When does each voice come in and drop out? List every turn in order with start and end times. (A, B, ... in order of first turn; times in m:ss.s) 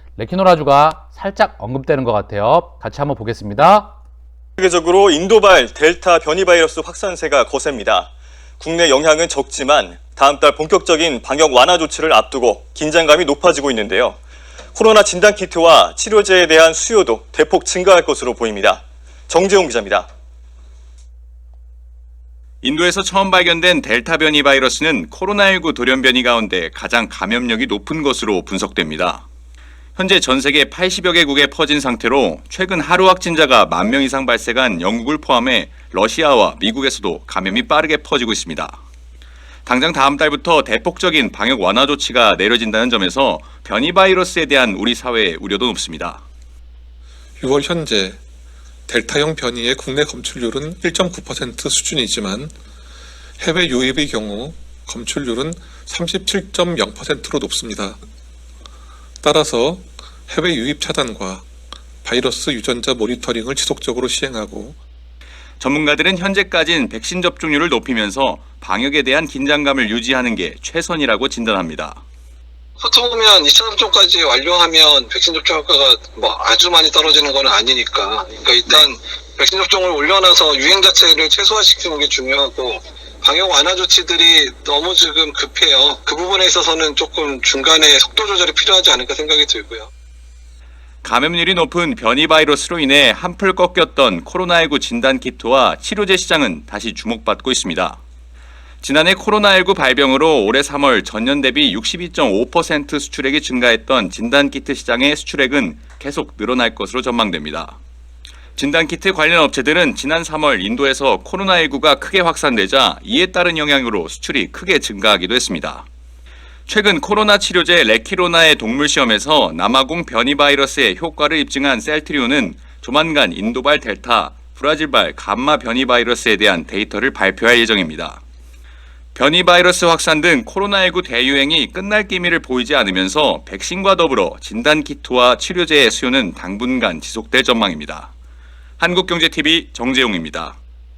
0:00.2-0:03.9 A
0:04.6-0:14.2 B
0:14.8-0:20.1 B
0:22.6-0:29.2 C
0:30.0-0:38.8 C
0:39.7-0:46.2 C
0:47.4-0:48.2 D
0:48.9-0:52.6 D
0:53.4-0:58.0 D
0:59.2-1:01.5 D
1:02.0-1:04.8 D
1:05.6-1:12.0 C
1:12.8-1:29.9 E
1:31.0-1:38.0 C
1:38.8-1:47.8 C
1:48.6-1:55.9 C
1:56.7-2:08.2 C
2:09.2-2:18.1 C
2:18.8-2:20.6 C